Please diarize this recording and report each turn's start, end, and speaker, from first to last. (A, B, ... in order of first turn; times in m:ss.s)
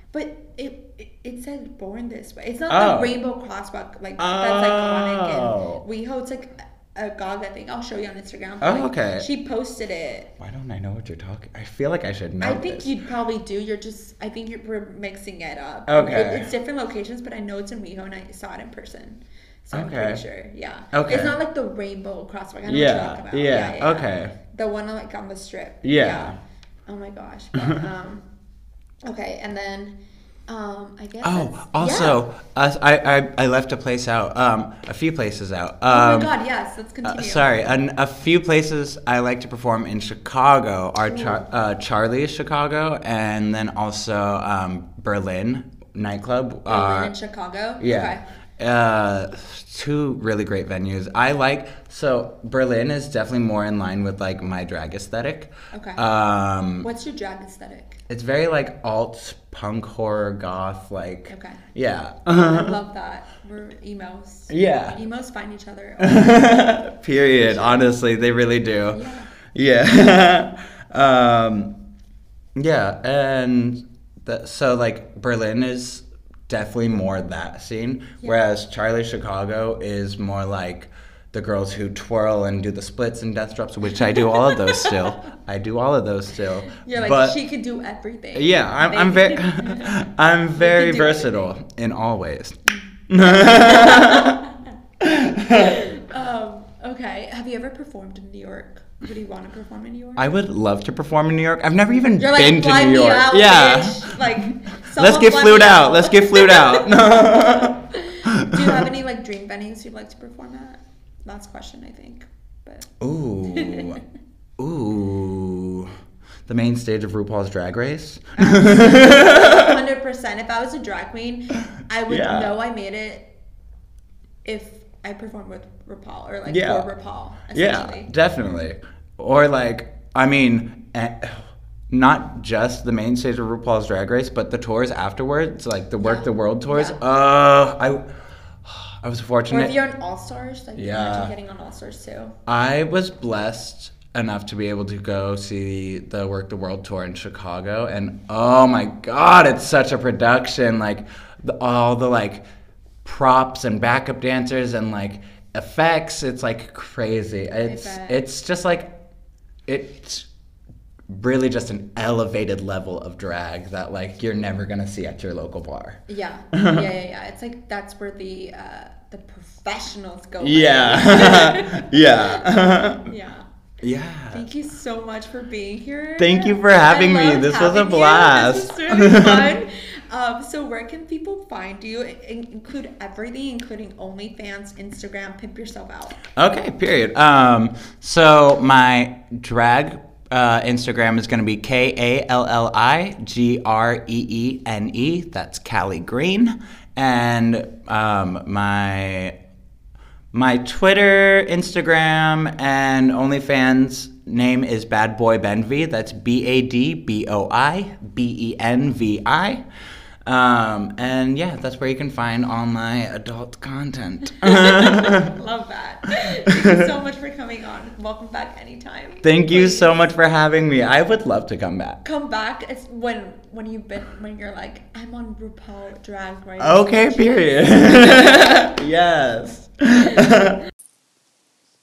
0:00.1-0:10.3 A
0:02.7-0:03.2 B
0:04.2-0:05.8 B
0:08.6-0:09.3 B
0:10.4-0:12.9 B
0:12.4-0:28.2 A
0:15.9-0:16.5 B
0:19.7-0:20.2 B
0:20.9-0:21.3 B
0:22.6-0:24.3 B
0:25.8-0:26.4 B
0:29.0-0:32.2 A
0:31.2-0:36.3 B
0:35.9-0:37.5 A
0:37.0-0:47.1 B
0:41.0-0:41.4 A
0:46.7-0:48.2 A
0:47.8-0:56.9 B
0:55.7-0:56.0 A
0:56.8-0:58.0 A
0:58.1-1:02.8 B
1:01.3-1:01.6 A
1:02.3-1:07.9 A
1:04.5-1:05.0 B
1:06.0-1:11.8 B
1:08.9-1:09.3 A
1:12.6-1:27.4 B
1:24.1-1:25.0 A
1:26.7-1:30.0 A
1:28.3-1:34.4 B
1:30.6-1:31.5 A
1:33.2-1:34.7 A
1:35.0-1:35.8 B
1:35.5-1:40.3 A
1:40.2-1:48.8 B
1:42.2-1:52.9 A
1:53.0-1:54.0 B
1:53.5-1:54.0 A
1:54.6-1:56.0 B
1:56.5-1:59.8 B
1:58.4-2:03.3 A
2:02.1-2:02.5 B
2:04.4-2:08.1 A
2:06.5-2:06.9 B
2:07.5-2:19.7 B
2:16.0-2:17.0 A
2:19.5-2:22.4 A
2:20.8-2:21.3 B
2:22.4-2:32.4 B
2:33.0-2:38.9 B
2:37.6-2:38.2 A
2:39.6-2:40.3 B
2:41.1-2:46.9 B
2:46.1-2:53.5 A
2:50.4-2:53.1 B
2:53.8-2:54.5 B
2:54.3-3:06.3 A
2:56.2-2:59.6 B
3:06.3-3:19.4 B
3:20.3-3:29.6 B
3:30.2-3:35.3 B
3:34.4-3:39.9 A
3:36.5-3:36.8 B
3:39.2-3:42.0 B
3:42.0-3:48.7 A
3:46.6-3:50.6 B